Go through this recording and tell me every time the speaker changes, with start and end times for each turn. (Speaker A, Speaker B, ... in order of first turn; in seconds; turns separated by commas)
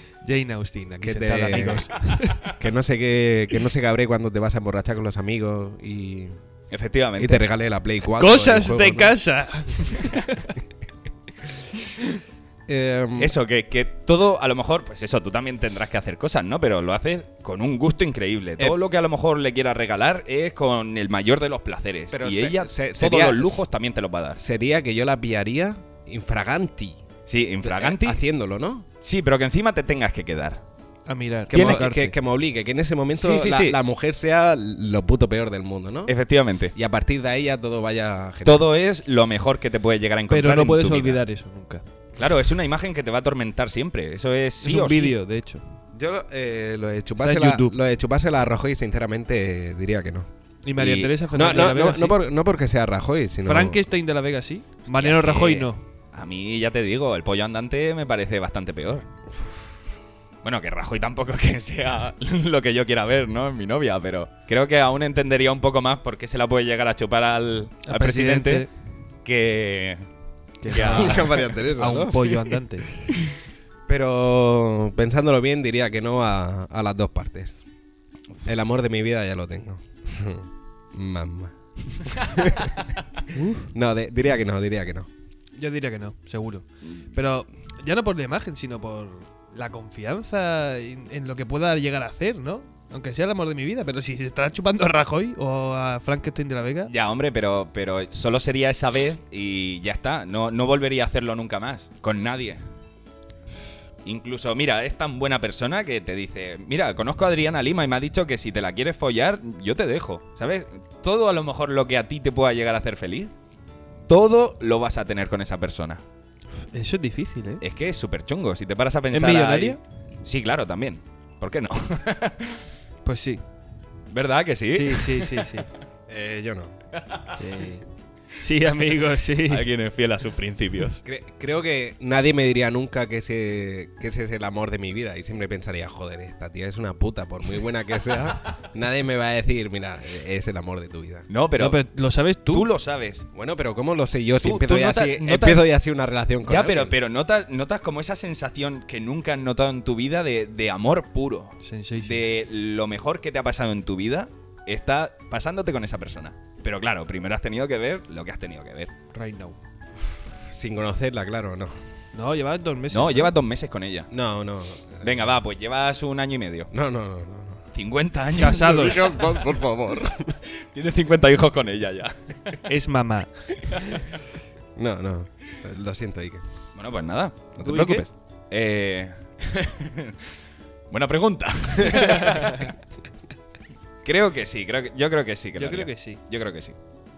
Speaker A: 0.2-2.5, Speaker B: 1.0-1.9, Speaker B: 2.5-6.4, Speaker C: 6.7-7.5, Speaker B: 7.2-9.2, Speaker A: 8.2-10.6, Speaker B: 12.7-13.3, Speaker C: 13.2-24.4, Speaker B: 22.1-23.7, Speaker B: 24.4-27.0, Speaker C: 27.3-28.2, Speaker B: 27.6-28.9, Speaker C: 29.0-30.6, Speaker A: 31.1-32.1, Speaker B: 31.5-36.1, Speaker C: 31.5-31.9, Speaker C: 33.2-33.8, Speaker C: 36.1-36.7, Speaker B: 36.7-38.7, Speaker C: 38.5-41.2, Speaker A: 40.3-41.8, Speaker C: 42.2-45.2, Speaker A: 44.6-45.6, Speaker B: 45.9-50.3, Speaker A: 47.2-47.8, Speaker A: 50.6-52.2, Speaker C: 50.8-51.2, Speaker B: 51.3-53.8, Speaker A: 53.5-55.8, Speaker C: 54.9-59.1, Speaker C: 60.4-68.7, Speaker A: 67.8-68.7, Speaker C: 69.2-70.0, Speaker A: 70.6-72.9, Speaker C: 70.7-71.5, Speaker B: 70.7-72.3, Speaker B: 73.9-77.6, Speaker B: 78.5-82.9, Speaker A: 83.3-83.7, Speaker B: 83.7-85.1, Speaker A: 85.6-96.9, Speaker C: 96.9-102.6, Speaker C: 104.0-113.3, Speaker C: 114.1-116.0, Speaker A: 116.7-117.6, Speaker C: 117.6-122.7, Speaker A: 119.1-119.8, Speaker A: 123.0-123.4, Speaker C: 124.1-125.5, Speaker A: 124.7-125.7, Speaker B: 126.1-126.8, Speaker C: 127.1-127.3, Speaker A: 127.3-127.8, Speaker A: 128.4-129.7, Speaker C: 129.5-131.0, Speaker B: 131.0-141.3, Speaker C: 141.3-141.8, Speaker A: 141.6-142.7, Speaker C: 142.5-143.2, Speaker B: 143.3-147.0, Speaker C: 144.4-145.7, Speaker C: 146.5-158.9, Speaker A: 151.6-152.2, Speaker A: 159.1-159.6, Speaker B: 160.0-161.8, Speaker A: 162.1-163.3, Speaker C: 162.9-164.1, Speaker B: 164.1-165.3, Speaker C: 165.0-166.7, Speaker B: 166.7-167.7, Speaker C: 167.7-169.4, Speaker B: 168.3-170.4, Speaker A: 168.3-169.0, Speaker C: 170.4-172.6, Speaker A: 172.7-174.0, Speaker B: 174.8-176.4, Speaker C: 176.8-180.2, Speaker A: 177.6-178.1, Speaker C: 180.9-182.7, Speaker A: 181.8-182.7, Speaker C: 184.0-186.8, Speaker A: 185.6-186.2